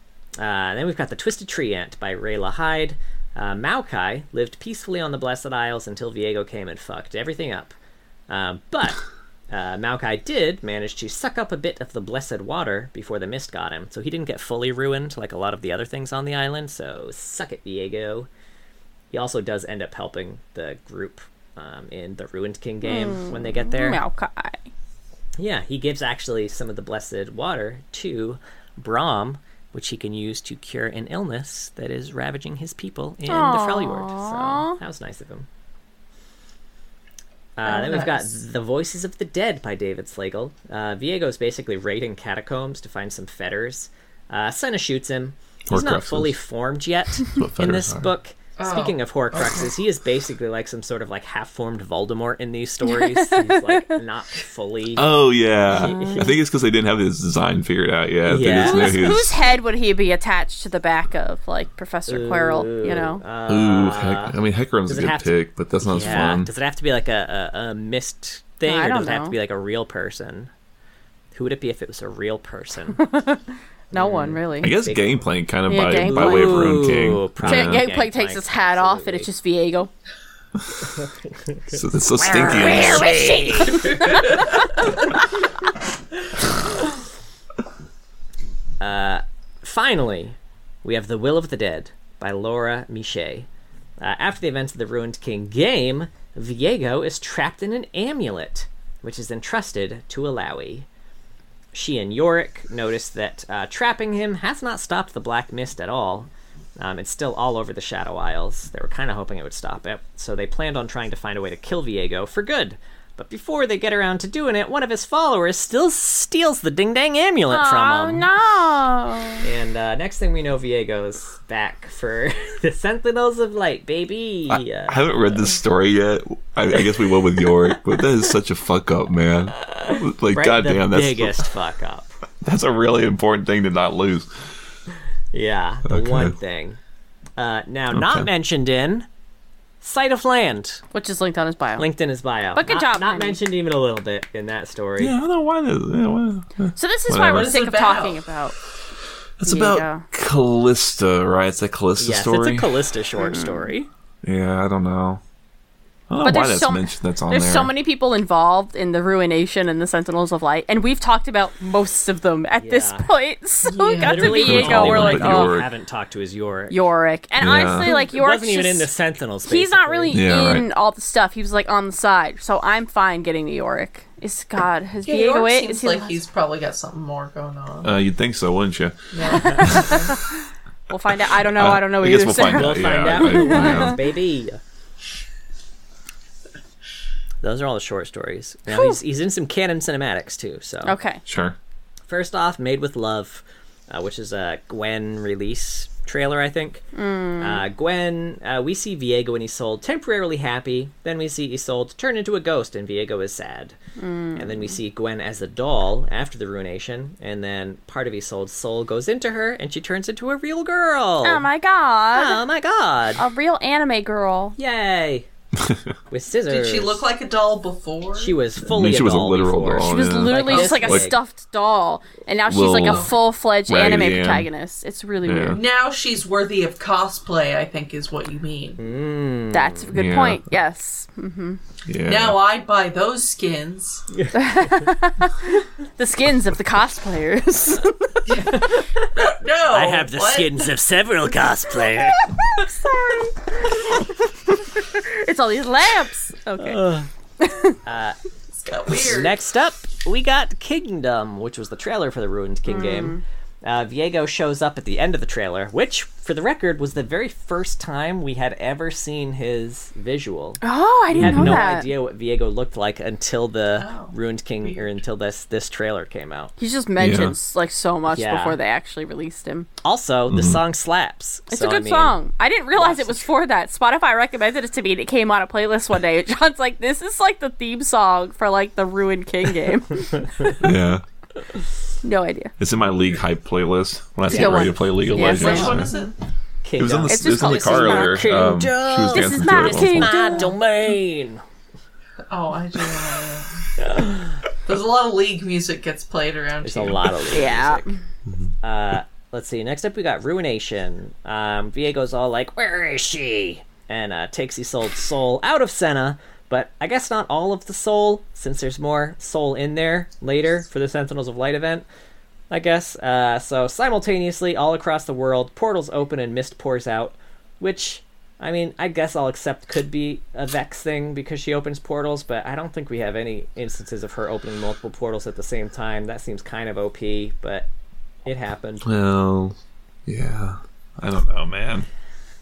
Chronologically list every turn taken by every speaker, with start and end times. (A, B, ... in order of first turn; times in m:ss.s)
0:00.4-0:07.7 A
0:08.3-0:09.0 A
0:09.5-0:18.3 A
0:19.1-0:24.0 A
0:22.8-0:24.7 B
0:25.4-0:35.5 A
0:33.3-0:34.8 B
0:37.6-0:55.1 A
0:37.6-0:38.3 C
0:45.7-0:46.3 D
0:47.3-0:48.1 D
0:48.6-0:49.7 C
0:52.8-0:54.0 B
0:54.9-0:59.4 D
0:55.7-0:56.3 A
0:55.8-0:56.3 B
0:58.2-0:59.2 A
0:58.6-1:03.2 B
1:02.1-1:04.3 A
1:03.5-1:06.5 D
1:04.9-1:10.5 A
1:08.6-1:09.3 B
1:11.3-1:13.0 A
1:13.0-1:14.7 B
1:13.9-1:15.2 A
1:14.6-1:17.8 D
1:15.7-1:16.7 B
1:15.9-1:19.3 A
1:17.4-1:19.9 B
1:21.0-1:24.4 A
1:21.7-1:23.2 D
1:22.3-1:24.5 B
1:28.8-1:33.5 A
1:34.0-1:40.9 A
1:41.7-1:58.3 A
1:57.5-1:59.4 B
1:59.4-2:05.4 A
2:04.5-2:11.4 D
2:07.1-2:07.8 A
2:09.6-2:12.1 A
2:12.4-2:14.3 D
2:15.3-2:16.8 A
2:15.9-2:16.3 D
2:17.4-2:19.0 A
2:17.9-2:18.3 D
2:19.8-2:20.8 A
2:20.9-2:21.9 B
2:21.8-2:25.1 A
2:22.5-2:23.4 B
2:25.0-2:27.5 D
2:26.8-2:28.6 B
2:27.2-2:28.2 C
2:29.4-2:32.7 D
2:29.4-2:30.0 B
2:32.0-2:33.9 A
2:33.2-2:33.6 B
2:34.2-2:35.2 D
2:36.1-2:37.7 D
2:36.2-2:45.6 B
2:42.6-2:43.1 A
2:43.6-2:44.4 C
2:44.0-2:46.9 A
2:44.4-2:45.7 D
2:46.7-2:48.9 B
2:47.4-2:47.9 D
2:47.6-2:50.3 A
2:49.4-2:56.2 B
2:50.1-2:50.7 D
2:55.0-2:57.9 C
2:57.8-2:59.8 D
2:59.1-3:00.2 C
2:59.2-3:00.3 B
3:00.9-3:04.0 B
3:01.4-3:04.0 D
3:02.5-3:04.6 A
3:07.4-3:11.0 A
3:08.7-3:09.0 B
3:10.8-3:11.2 B
3:11.2-3:11.6 D
3:12.1-3:16.8 A
3:16.9-3:17.6 B
3:17.4-3:23.8 A
3:24.0-3:24.8 B
3:24.4-3:31.4 A
3:31.2-3:32.4 B
3:32.1-3:33.2 A
3:33.2-3:34.6 B
3:34.6-3:35.3 A
3:35.6-3:35.8 D
3:36.1-3:37.0 A
3:36.5-3:38.4 C
3:38.2-3:41.2 A
3:38.6-3:41.1 D
3:39.8-3:45.6 B
3:42.5-3:44.5 D
3:45.2-3:45.6 D
3:45.5-3:48.8 C
3:48.8-3:49.9 A
3:49.5-3:51.6 B
3:49.9-3:50.4 D
3:51.8-3:52.4 D
3:52.0-3:54.0 C
3:54.1-3:54.7 A
3:54.3-3:58.2 B
3:58.2-4:00.6 C
3:59.7-4:02.3 A
4:02.3-4:06.8 B
4:06.6-4:07.1 A
4:07.4-4:07.8 B
4:07.8-4:08.2 A
4:08.6-4:09.4 C
4:08.9-4:26.5 A
4:12.6-4:13.2 B
4:20.6-4:21.9 B
4:21.2-4:21.6 D
4:23.8-4:24.9 C
4:26.6-4:29.7 B
4:27.0-4:27.3 D
4:28.1-4:28.6 A
4:29.8-4:32.2 A
4:30.3-4:30.6 D
4:31.5-4:40.6 B
4:32.8-4:33.2 A
4:40.6-4:41.0 D
4:42.0-4:42.5 B
4:42.6-4:45.9 D
4:44.3-4:45.7 B
4:44.3-4:44.7 A
4:45.1-4:46.1 C
4:45.2-4:46.0 A
4:46.6-4:51.4 A
4:46.8-4:50.2 D
4:47.1-4:48.3 B
4:49.1-4:50.5 B
4:52.3-4:53.6 C
4:53.9-4:54.2 A
4:54.6-4:57.2 C
4:56.6-4:57.9 A
4:57.3-4:57.9 B
4:58.6-5:11.8 A
5:12.5-5:27.7 A
5:28.2-5:28.9 A
5:28.8-5:31.9 D